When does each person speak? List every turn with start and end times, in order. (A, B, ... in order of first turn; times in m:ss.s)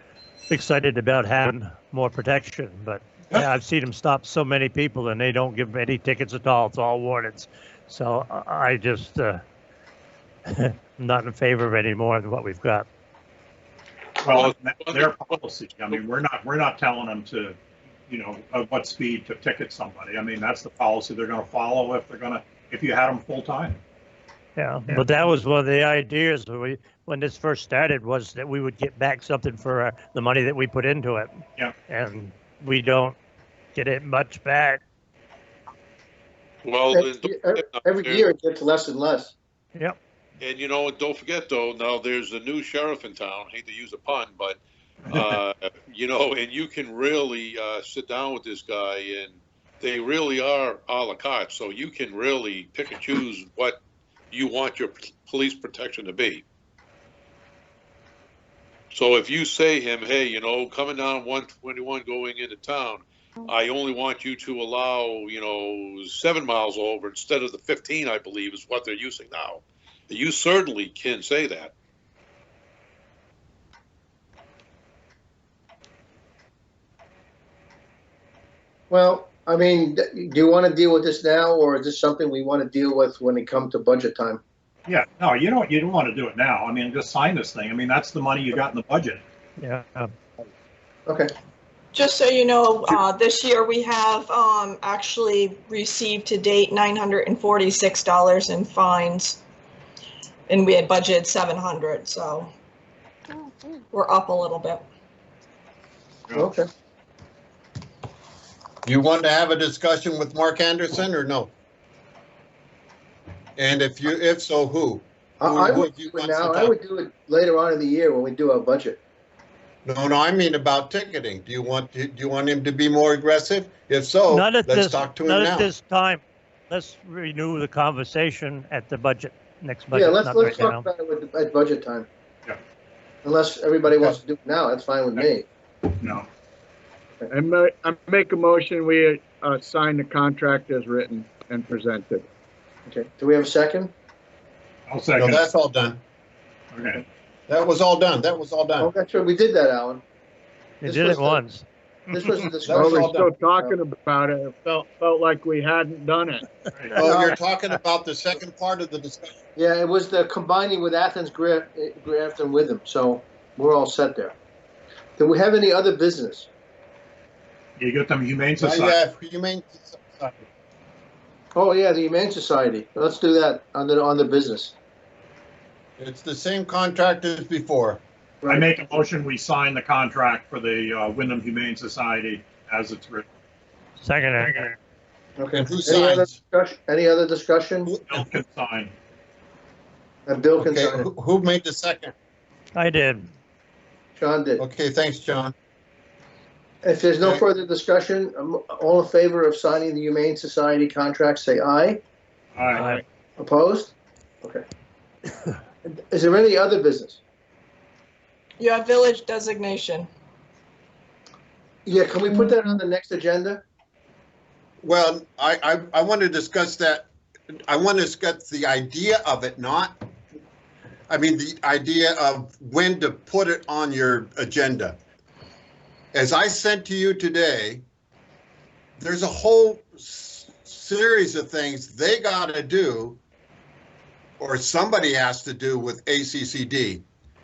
0:00.5-0:09.4 A
0:10.5-0:12.8 A
0:14.2-0:23.8 B
0:14.3-0:15.2 C
0:24.6-0:33.2 A
0:33.7-0:34.8 A
0:36.6-0:38.3 C
0:36.9-0:39.3 D
0:40.4-0:44.6 C
0:45.1-0:53.8 C
0:54.3-0:56.4 C
0:58.9-1:11.7 C
1:18.9-1:24.4 D
1:24.9-1:29.2 B
1:29.6-1:30.1 A
1:31.9-1:39.4 E
1:40.5-1:42.5 E
1:43.9-1:44.8 E
1:46.3-1:46.7 D
1:48.8-1:51.5 F
1:53.6-1:56.7 F
1:55.4-1:59.0 D
1:59.8-2:05.7 F
2:04.3-2:10.9 A
2:09.9-2:12.1 D
2:13.2-2:15.4 D
2:16.0-2:16.3 B
2:17.3-2:22.3 G
2:22.9-2:23.9 D
2:24.9-2:25.4 B
2:25.2-2:26.0 F
2:26.7-2:27.0 B
2:27.5-2:28.9 F
2:28.8-2:30.0 D
2:30.8-2:31.6 A
2:30.8-2:31.4 D
2:32.1-2:33.7 D
2:32.6-2:36.7 G
2:32.6-2:33.3 F
2:36.7-2:37.0 B
2:37.0-2:37.3 D
2:37.0-2:39.3 F
2:39.6-2:44.3 D
2:45.2-2:46.5 D
2:47.8-2:49.0 B
2:48.6-2:50.4 F
2:51.5-2:54.7 D
2:56.0-2:58.0 F
2:58.4-2:58.7 D
2:58.5-3:03.2 B
3:04.0-3:04.8 A
3:04.4-3:04.7 B
3:05.4-3:07.9 D
3:05.5-3:06.3 F
3:07.9-3:08.2 F
3:08.0-3:08.9 B
3:10.3-3:11.1 D
3:10.6-3:12.1 F
3:12.8-3:13.3 A
3:14.2-3:14.6 D
3:14.6-3:15.5 F
3:16.8-3:22.0 D
3:22.5-3:23.0 B
3:22.7-3:23.0 A
3:23.4-3:24.6 D
3:25.9-3:27.2 D
3:28.6-3:30.1 E
3:31.8-3:33.6 D
3:34.8-3:37.1 F
3:37.7-3:40.0 F
3:41.1-3:45.0 F
3:46.1-3:47.8 F
3:49.0-3:53.2 F
3:54.4-3:57.0 F